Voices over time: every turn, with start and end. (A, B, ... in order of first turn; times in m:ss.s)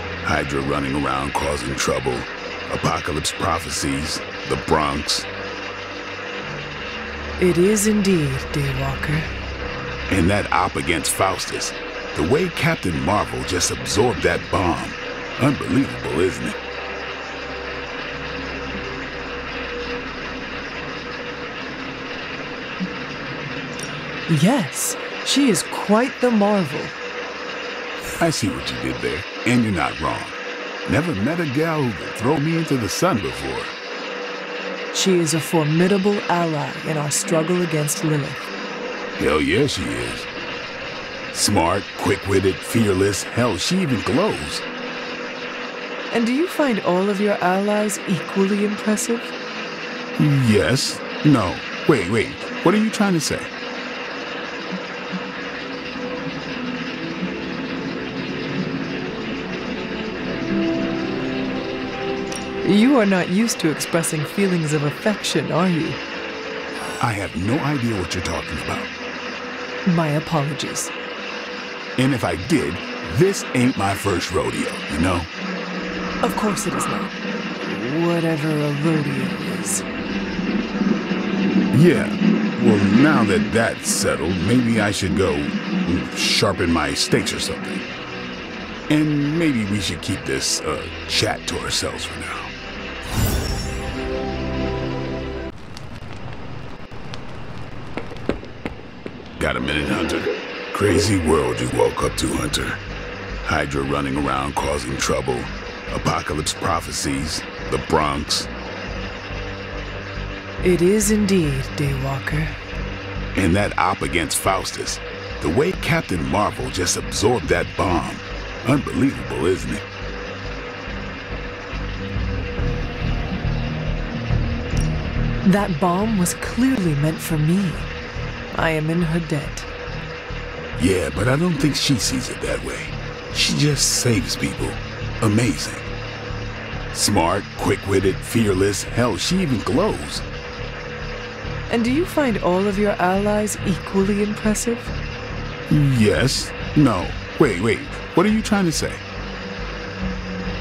0:00.2-0:05.3 A
0:07.4-0:09.3 B
0:10.1-0:16.6 A
0:24.3-0:27.0 B
0:28.2-0:33.8 A
0:34.9-0:38.5 B
0:39.2-0:40.3 A
0:41.3-0:44.6 A
0:46.1-0:49.3 B
0:50.2-0:53.5 A
1:02.6-1:06.0 B
1:07.0-1:08.9 A
1:09.9-1:10.9 B
1:12.0-1:15.3 A
1:16.2-1:19.8 B
1:21.7-1:27.9 A
1:28.9-1:32.5 A
1:39.4-1:42.8 A
1:43.4-1:48.5 A
1:50.6-1:52.6 B
1:53.3-1:59.8 A
2:05.4-2:07.9 B
2:08.5-2:09.7 B
2:10.8-2:15.9 A
2:16.9-2:20.2 A
2:21.7-2:24.9 B
2:25.7-2:29.0 A